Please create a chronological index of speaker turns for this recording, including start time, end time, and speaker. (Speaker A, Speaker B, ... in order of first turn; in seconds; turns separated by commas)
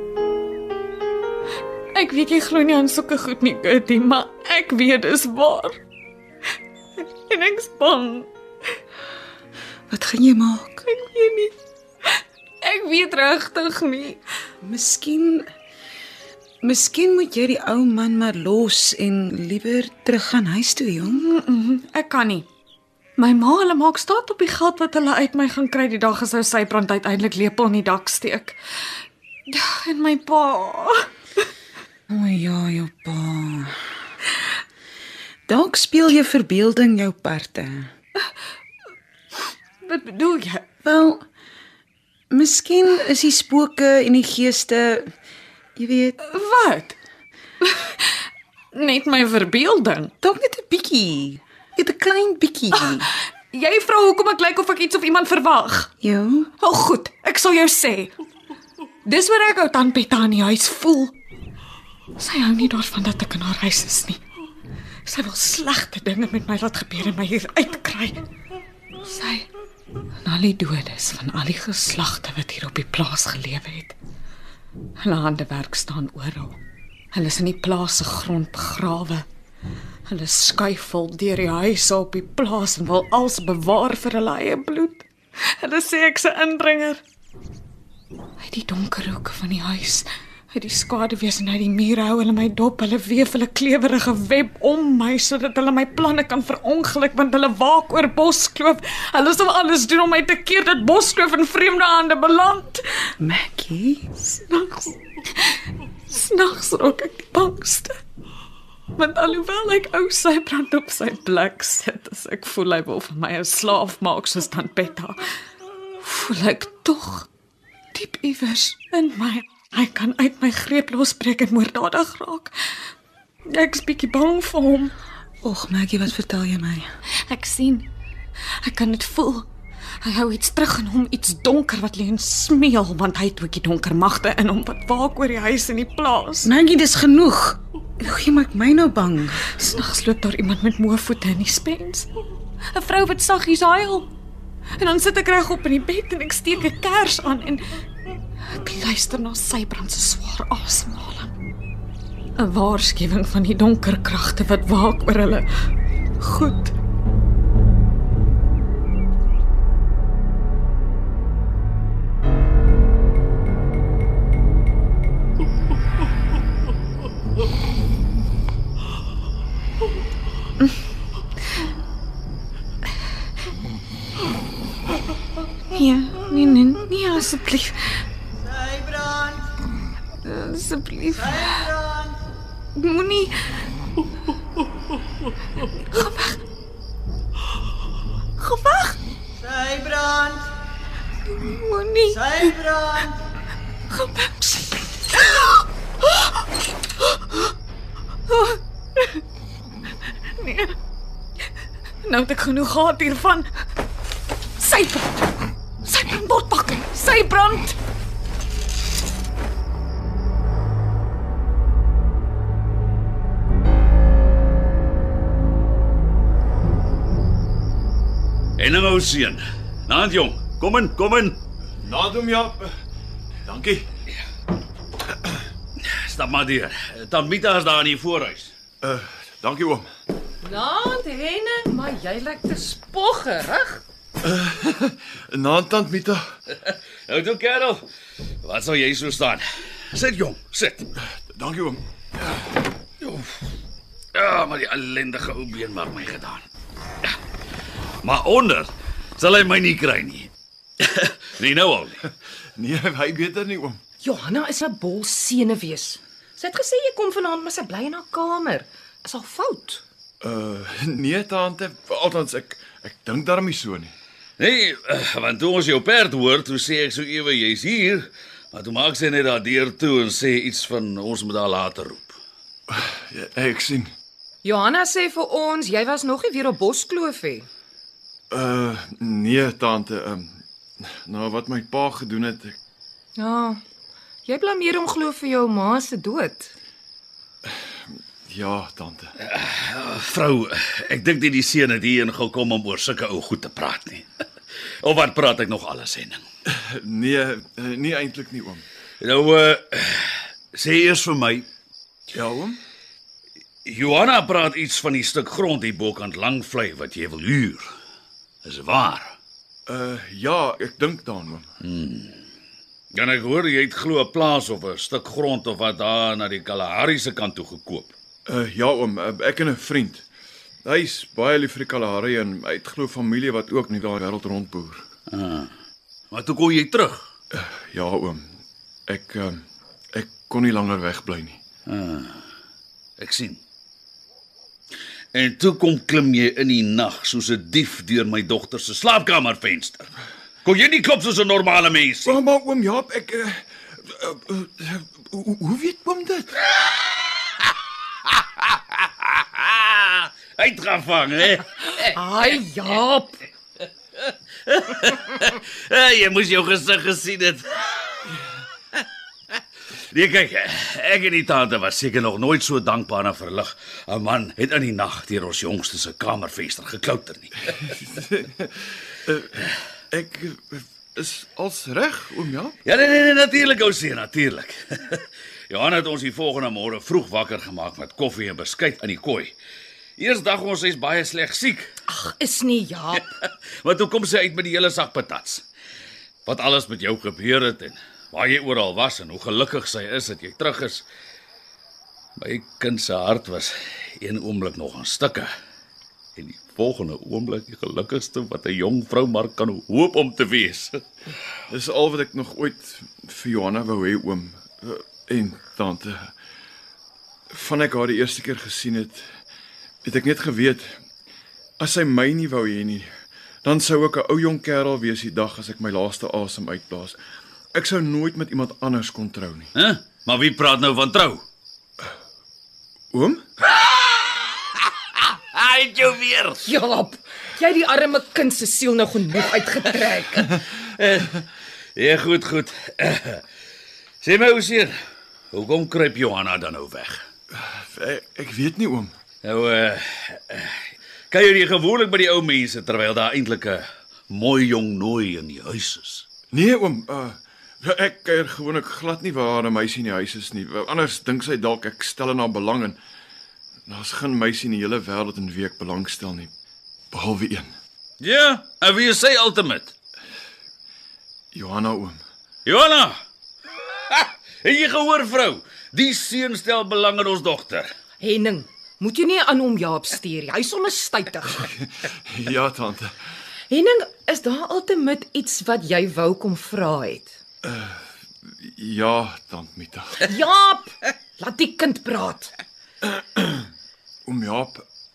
Speaker A: 1.9-5.8, Speaker A: 7.0-8.3, Speaker B: 9.9-10.8, Speaker A: 10.8-11.5, Speaker A: 12.6-14.2, Speaker B: 14.6-15.4, Speaker B: 16.6-21.2, Speaker A: 21.1-22.5, Speaker A: 23.2-28.6, Speaker A: 29.5-31.1, Speaker B: 32.1-33.7, Speaker B: 35.5-37.9, Speaker A: 39.8-40.7, Speaker B: 40.8-41.2, Speaker B: 42.3-45.1, Speaker B: 45.8-46.2, Speaker A: 46.2-47.0, Speaker A: 47.6-48.1, Speaker A: 48.7-50.1, Speaker B: 50.2-53.0, Speaker A: 52.7-55.9, Speaker B: 56.0-56.5, Speaker A: 56.6-58.1, Speaker A: 59.0-61.1, Speaker A: 62.2-64.2, Speaker A: 65.0-68.2, Speaker A: 69.0-69.5, Speaker A: 70.2-74.0, Speaker A: 75.0-76.6, Speaker A: 77.1-79.2, Speaker A: 80.1-87.0, Speaker A: 88.4-102.8, Speaker B: 103.2-104.1, Speaker A: 104.2-107.9, Speaker A: 109.0-115.2, Speaker A: 116.0-117.3, Speaker A: 117.9-122.5, Speaker A: 123.5-124.9, Speaker B: 125.4-126.9, Speaker A: 127.2-127.9, Speaker A: 128.6-129.5, Speaker A: 130.0-136.5, Speaker B: 136.4-139.5, Speaker A: 139.4-142.1, Speaker A: 142.7-144.1, Speaker A: 144.8-147.7, Speaker A: 148.4-151.3, Speaker A: 152.3-155.5, Speaker A: 156.2-156.7, Speaker A: 175.7-178.0, Speaker A: 180.2-181.8, Speaker A: 182.8-183.4, Speaker A: 185.8-186.4, Speaker A: 188.4-189.0, Speaker A: 191.2-193.1, Speaker A: 193.9-196.4, Speaker A: 197.0-197.5, Speaker A: 198.3-199.2, Speaker A: 200.4-200.8, Speaker A: 202.0-203.5, Speaker A: 204.6-205.3, Speaker A: 205.8-207.7, Speaker C: 218.6-221.4, Speaker D: 221.8-222.7, Speaker D: 223.5-223.8, Speaker C: 225.8-228.5, Speaker D: 228.8-229.8, Speaker E: 230.4-233.8, Speaker D: 234.2-236.2, Speaker C: 236.5-237.8, Speaker C: 238.4-240.9, Speaker D: 241.3-241.8, Speaker C: 243.0-243.3, Speaker C: 244.1-246.4, Speaker C: 248.0-250.3, Speaker C: 250.8-252.0, Speaker D: 252.6-253.8, Speaker E: 254.0-259.8, Speaker D: 260.2-263.9, Speaker C: 264.4-272.2, Speaker D: 272.7-273.9, Speaker E: 274.4-277.5, Speaker D: 278.3-282.6, Speaker E: 283.1-283.6, Speaker E: 284.2-286.5, Speaker D: 288.3-289.1, Speaker C: 289.2-294.1, Speaker C: 294.8-296.2, Speaker D: 296.5-298.6, Speaker C: 299.0-301.4, Speaker D: 302.1-302.6, Speaker C: 303.6-307.7, Speaker C: 308.4-309.1, Speaker D: 309.7-311.4, Speaker C: 311.6-312.1, Speaker C: 312.9-317.9, Speaker D: 318.3-320.0, Speaker D: 320.6-324.8, Speaker C: 325.1-325.5, Speaker C: 326.1-327.1, Speaker D: 327.3-328.2, Speaker D: 328.9-329.4, Speaker D: 329.9-331.4, Speaker C: 331.7-332.2, Speaker C: 333.0-333.4, Speaker C: 335.1-339.9, Speaker C: 340.4-342.2, Speaker D: 342.0-346.4, Speaker C: 348.1-352.4, Speaker E: 351.9-353.2, Speaker C: 354.0-357.7, Speaker C: 359.9-367.7, Speaker D: 367.7-369.4, Speaker D: 369.9-372.6, Speaker C: 372.6-379.3, Speaker C: 380.0-381.7, Speaker E: 381.9-383.0, Speaker C: 382.9-385.4, Speaker C: 386.2-390.8, Speaker C: 392.2-395.3, Speaker C: 396.1-400.8, Speaker D: 401.5-406.1, Speaker D: 407.3-409.1, Speaker D: 409.8-410.8, Speaker D: 411.6-412.9, Speaker D: 413.4-417.0, Speaker D: 417.5-419.5, Speaker C: 419.6-421.2, Speaker D: 422.9-423.2, Speaker C: 425.3-426.4, Speaker E: 426.4-430.2, Speaker C: 429.6-431.2, Speaker C: 431.8-433.2, Speaker C: 434.0-434.7, Speaker C: 435.3-437.0, Speaker D: 437.3-438.9, Speaker C: 439.2-440.6, Speaker C: 441.1-446.0, Speaker D: 446.3-452.8, Speaker D: 453.7-456.3, Speaker D: 456.9-457.5, Speaker C: 458.0-459.7, Speaker D: 461.3-462.0, Speaker C: 462.4-462.9, Speaker C: 463.9-467.7, Speaker E: 468.0-471.4, Speaker D: 471.4-472.9, Speaker E: 473.5-477.2, Speaker D: 477.4-480.0, Speaker E: 480.1-482.3, Speaker D: 482.8-483.5, Speaker D: 484.1-484.6